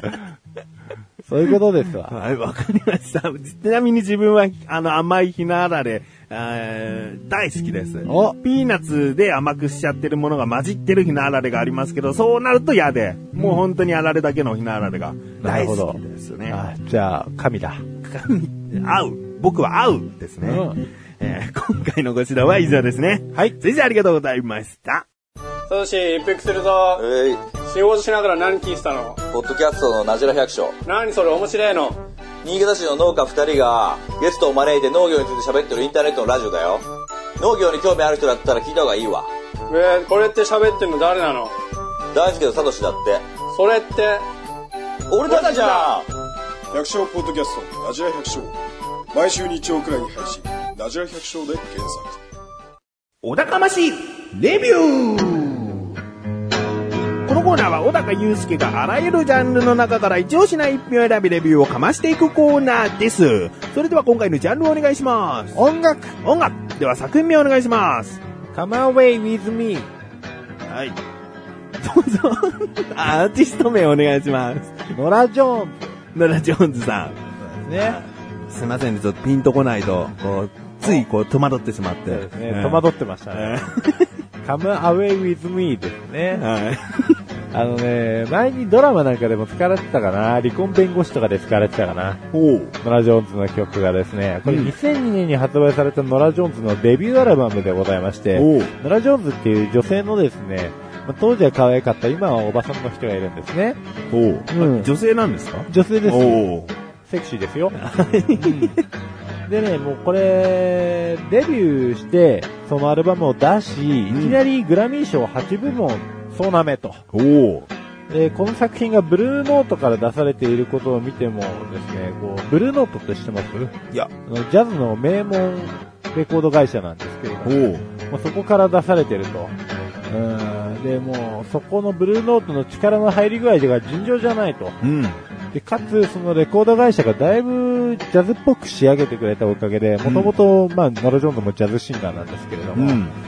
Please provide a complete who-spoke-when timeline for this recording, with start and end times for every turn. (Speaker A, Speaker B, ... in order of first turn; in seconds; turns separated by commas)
Speaker A: 1.3-2.1, Speaker B: 2.0-16.6, Speaker A: 8.1-8.3, Speaker A: 15.4-17.8, Speaker B: 18.0-25.1, Speaker A: 20.4-20.8, Speaker C: 25.7-27.0, Speaker D: 27.0-27.4, Speaker C: 27.6-29.2, Speaker D: 29.3-30.8, Speaker C: 30.8-32.0, Speaker D: 32.4-36.8, Speaker D: 37.4-39.3, Speaker C: 39.7-41.5, Speaker D: 42.1-43.2, Speaker C: 43.5-44.2, Speaker D: 45.1-46.1, Speaker C: 45.2-45.9, Speaker E: 46.7-48.5, Speaker E: 49.1-52.2, Speaker B: 53.2-55.9, Speaker B: 57.2-65.6, Speaker A: 65.5-66.2, Speaker B: 66.2-68.2, Speaker A: 68.5-69.9, Speaker B: 70.7-71.0, Speaker B: 71.8-74.8, Speaker A: 74.9-76.0, Speaker B: 76.1-77.2, Speaker A: 77.4-78.0, Speaker B: 77.7-84.1, Speaker A: 82.1-83.6, Speaker A: 84.4-86.4, Speaker B: 86.3-87.2, Speaker A: 87.5-92.2, Speaker B: 92.3-92.7, Speaker A: 92.8-103.8, Speaker B: 94.4-94.7, Speaker B: 98.3-98.7, Speaker B: 104.1-106.7, Speaker A: 104.5-104.9, Speaker A: 105.7-106.5, Speaker A: 107.1-107.8, Speaker B: 107.8-108.8, Speaker A: 108.3-108.8, Speaker A: 109.5-117.0, Speaker B: 114.1-114.4, Speaker B: 117.1-117.7, Speaker A: 118.1-129.5, Speaker B: 127.4-127.8, Speaker A: 130.1-134.8, Speaker B: 134.8-135.2, Speaker A: 135.5-143.0, Speaker B: 140.0-140.3, Speaker B: 142.7-143.1